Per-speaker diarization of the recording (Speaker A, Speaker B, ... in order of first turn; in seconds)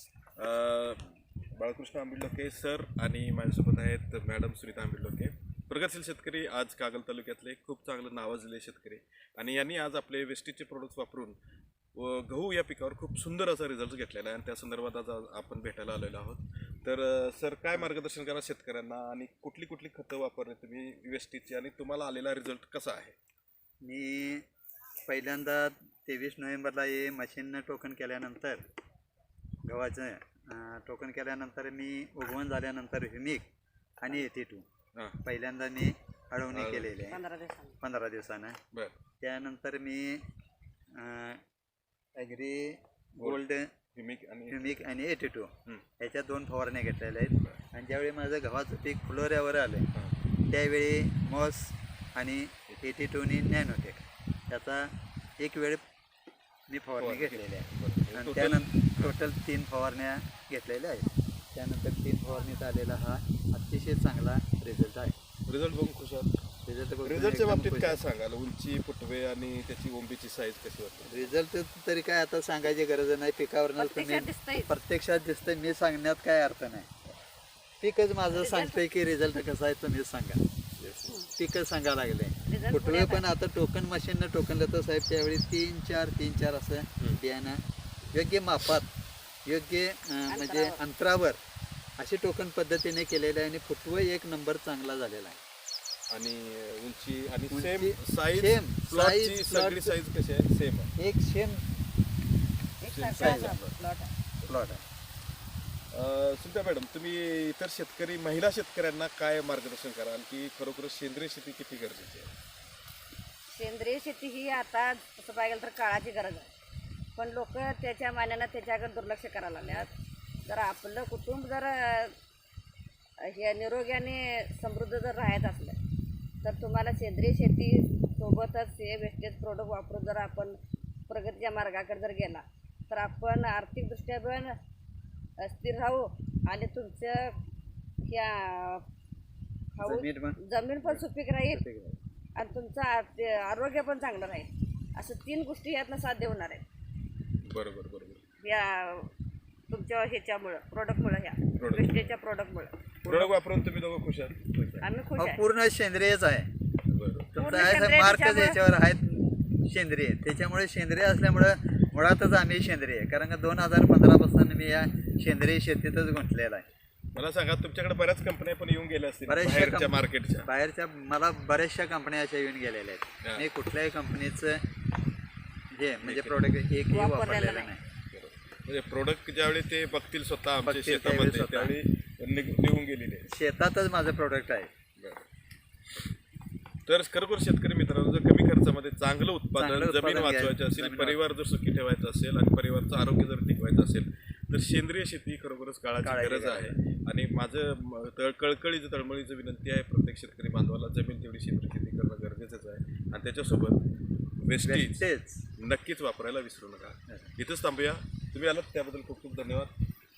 Speaker A: 0.4-1.0, 1.6-11.4, 12.0-23.1, 36.5-36.9, 38.7-39.0, 44.0-44.8, 57.0-59.1, 65.5-66.3, 67.0-71.3, 80.8-81.1, 96.1-100.9, 102.9-103.8, 105.9-112.3, 147.4-148.2, 151.6-152.2, 153.0-154.6, 156.9-157.3, 167.2-170.5, 176.0-176.4, 178.1-183.3, 185.0-185.2, 186.9-203.8, 204.4-205.0, 205.6-209.7
Speaker B: 23.8-24.4, 25.1-28.6, 29.6-33.5, 34.0-34.6, 35.2-37.2, 37.8-38.6, 39.2-40.2, 41.0-41.4, 42.2-43.7, 44.5-49.9, 50.5-55.8, 56.7-65.2, 66.7-68.0, 71.1-76.9, 77.8-80.4, 81.4-88.9, 89.5-91.4, 92.0-95.4, 97.5-100.0, 101.0-101.6, 103.2-103.6, 104.5-104.8, 139.8-142.0, 153.1-153.3, 154.6-156.5, 157.3-166.7, 169.3-174.6, 175.7-177.8, 180.6-181.8, 183.3-184.7, 189.6-191.2, 196.0-196.8, 204.6-205.5
Speaker C: 37.1-37.8, 73.8-74.7, 78.3-78.8, 82.5-83.3, 90.3-90.8, 102.8-104.1, 113.5-116.5, 117.2-119.9, 120.5-122.1, 123.3-125.8, 126.4-130.6, 131.1-134.6, 135.4-137.3, 138.1-138.8, 139.8-141.6, 142.4-146.6, 148.4-149.1, 149.7-152.8, 154.8-155.4, 157.4-158.6, 176.9-177.7